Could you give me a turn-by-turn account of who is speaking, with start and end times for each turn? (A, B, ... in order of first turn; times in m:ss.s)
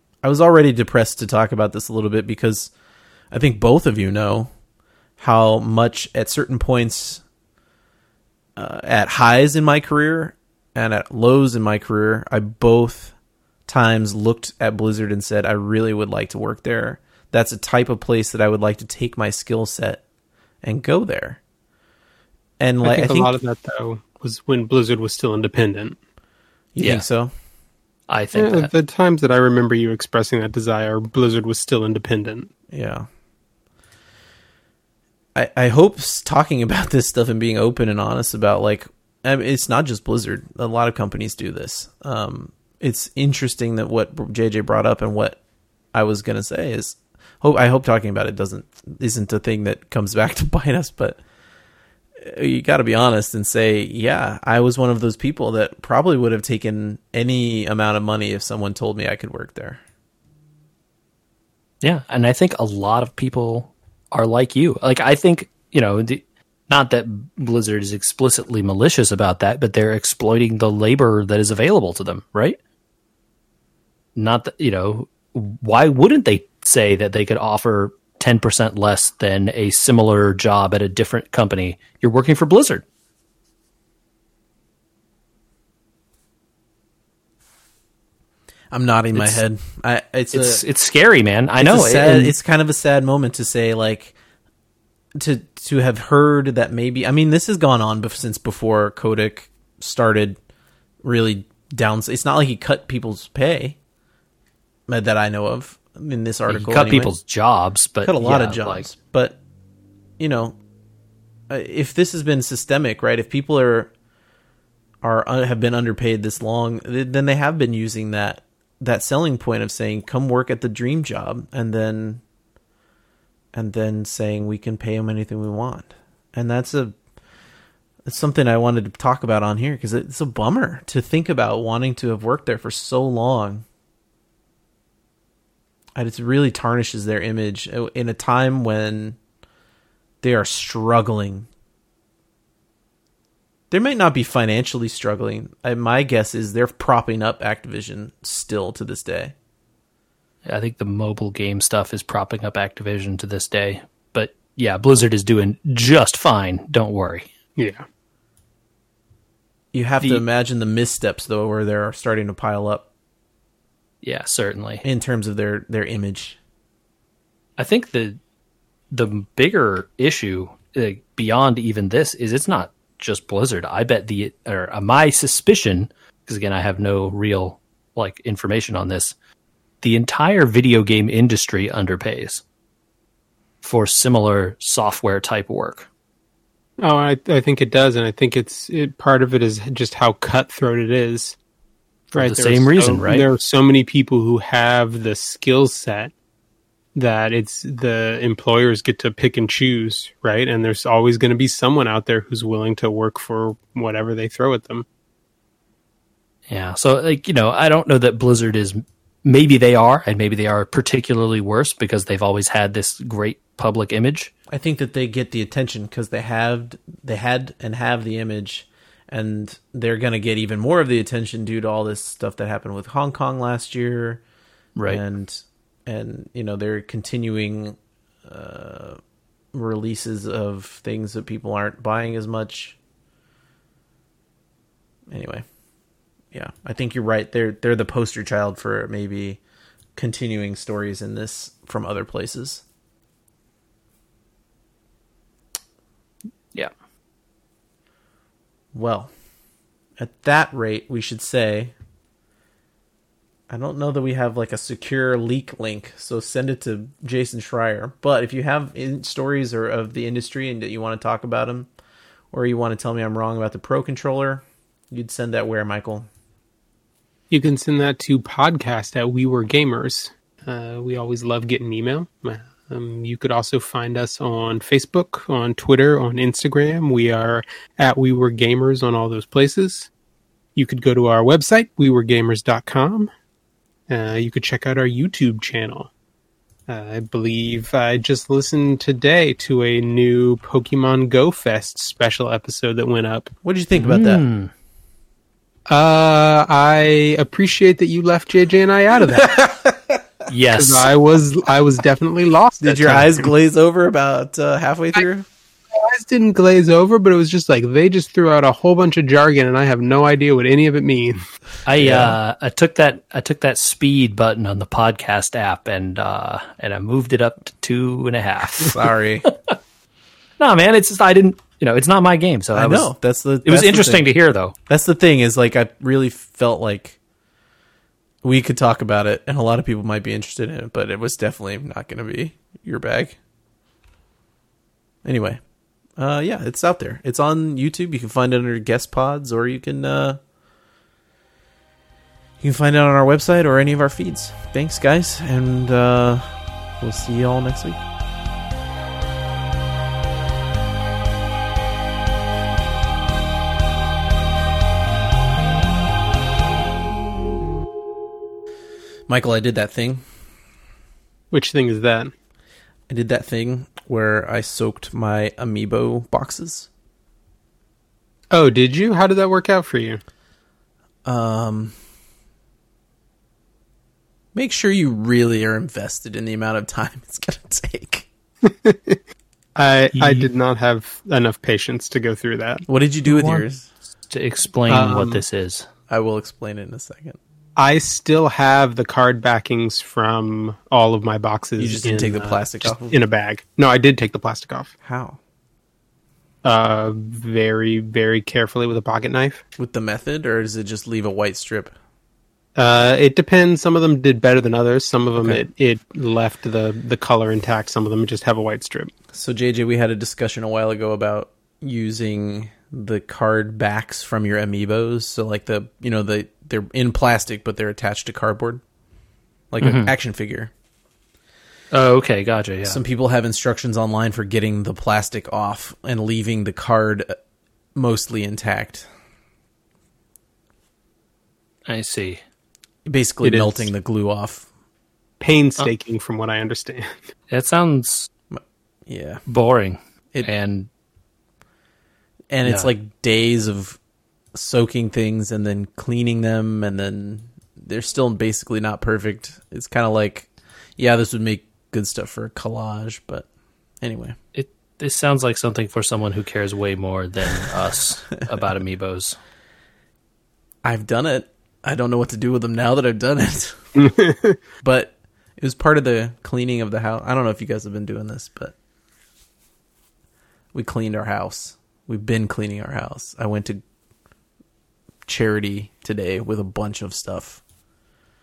0:00.2-0:02.7 A
0:03.3-0:04.5 A
0:05.2-0:07.2 A
0:08.6-0:13.1 A
0:13.7-0:20.0 A
0:20.6-0:21.4 A
0:22.6-0:23.3 A
0:22.8-0:26.0 B
0:26.7-0:27.3 A
0:28.1-0:28.7 C
0:28.3-0:32.5 B
0:32.7-0:33.1 A
0:35.3-0:45.4 A
0:45.9-0:51.2 A
0:52.2-0:59.8 A
1:01.8-1:12.6 C
1:14.2-1:22.8 C
1:28.7-1:30.6 A
1:29.1-1:29.4 C
1:30.3-1:32.3 C
1:31.6-1:34.1 A
1:35.2-1:40.4 A
1:41.0-1:43.8 A
1:44.9-1:47.1 A
1:46.5-1:48.9 C
1:48.0-1:49.4 A
1:50.2-1:50.6 A
1:51.5-1:53.9 A
1:55.0-2:02.2 A
2:03.5-2:06.9 A
2:08.0-2:13.6 A
2:16.0-2:19.2 A
2:20.2-2:21.5 A
2:23.7-2:29.3 A
2:30.4-2:37.2 C
2:37.6-2:37.8 B
2:39.7-2:42.9 A
2:44.0-2:44.8 C
2:44.8-2:46.4 A
2:47.6-2:48.2 C
2:48.9-2:59.1 C
2:59.8-3:02.4 C
3:03.6-3:05.9 C
3:06.8-3:11.4 B
3:12.1-3:13.2 C
3:12.1-3:16.1 B
3:16.9-3:24.9 B
3:26.5-3:34.3 C
3:34.5-3:44.2 A
3:44.8-3:45.0 C
3:44.9-3:49.0 A
3:49.5-3:52.8 A
3:55.1-3:55.4 A
3:56.3-3:59.4 A
4:00.0-4:02.6 A
4:08.7-4:09.1 A
4:10.0-4:11.7 A
4:13.5-4:21.7 A
4:22.3-4:26.1 A
4:27.3-4:39.9 B
4:40.6-4:43.1 B
4:43.9-4:45.9 B
4:46.7-4:53.3 B
4:53.4-4:54.2 A
4:53.7-4:54.5 C
4:55.7-4:59.5 B
4:59.2-5:00.0 A
5:00.3-5:00.9 C
5:00.6-5:03.3 B
5:02.6-5:05.3 A
5:05.7-5:11.2 B
5:11.6-5:19.5 C
5:11.8-5:12.2 A
5:18.6-5:19.3 A
5:20.4-5:22.9 C
5:22.5-5:24.1 A
5:23.4-5:24.6 C
5:24.7-5:27.0 A
5:28.2-5:33.2 A
5:35.0-5:35.4 A
5:36.0-5:40.2 A
5:42.4-5:47.8 A
5:59.1-6:00.0 A
6:01.3-6:02.1 B
6:02.9-6:06.7 A
6:08.3-6:10.0 B
6:11.0-6:11.7 A
6:14.3-6:18.1 A
6:18.4-6:19.0 B
6:19.6-6:22.6 B
6:19.9-6:20.3 C
6:22.7-6:23.7 A
6:23.0-6:23.4 C
6:24.1-6:25.7 C
6:24.7-6:25.2 B
6:25.9-6:27.2 A
6:27.6-6:34.7 B
6:31.6-6:33.0 A
6:34.8-6:35.2 A
6:36.4-6:39.4 B
6:39.6-6:41.7 A
6:42.6-6:48.9 B
6:45.2-6:45.5 A
6:49.1-6:58.6 A
6:59.5-7:00.5 A
6:59.6-6:59.9 C
7:01.7-7:02.8 C
7:02.6-7:07.1 A
7:07.7-7:08.9 A
7:11.7-7:12.2 C
7:12.8-7:14.5 A
7:13.2-7:13.7 B
7:15.2-7:17.0 B
7:17.3-7:18.1 C
7:18.3-7:19.2 A
7:19.3-7:20.7 C
7:22.3-7:23.8 A
7:24.3-7:33.3 A
7:33.8-7:34.2 A
7:34.4-7:39.2 C
7:40.6-7:43.6 A
7:43.8-7:44.4 B
7:44.6-7:48.6 A
7:50.5-7:53.6 A
7:55.1-7:57.4 A